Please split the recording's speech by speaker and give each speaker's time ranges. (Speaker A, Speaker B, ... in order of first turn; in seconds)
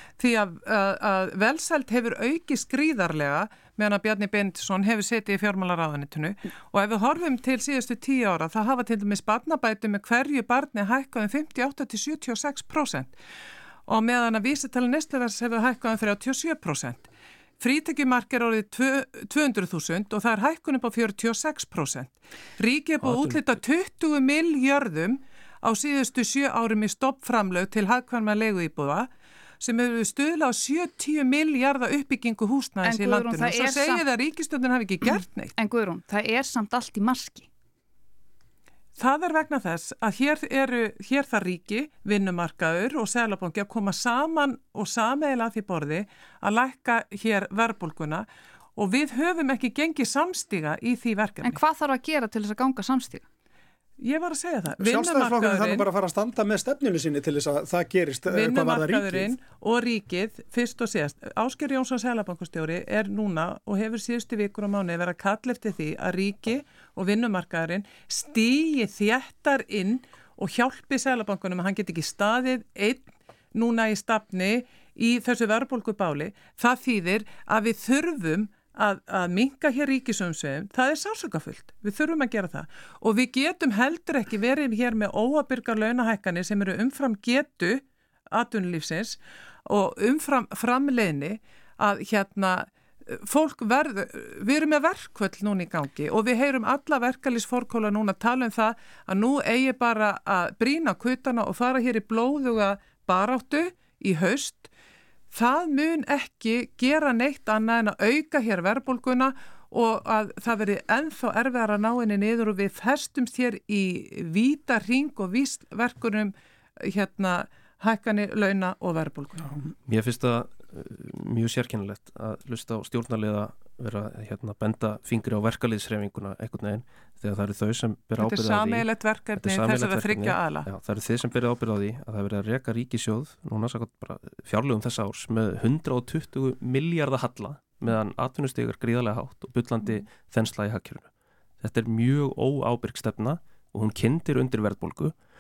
Speaker A: 0.2-13.1, 13.9-17.1, 17.6-29.1, 29.6-35.5, 39.0-51.6, 54.0-55.9, 58.3-104.7, 105.3-119.5, 128.2-130.7
Speaker B: 23.0-23.4, 119.9-128.9, 129.4-141.1, 141.6-145.1
Speaker C: 32.8-34.0, 35.6-37.5, 51.4-53.2
Speaker D: 54.8-59.3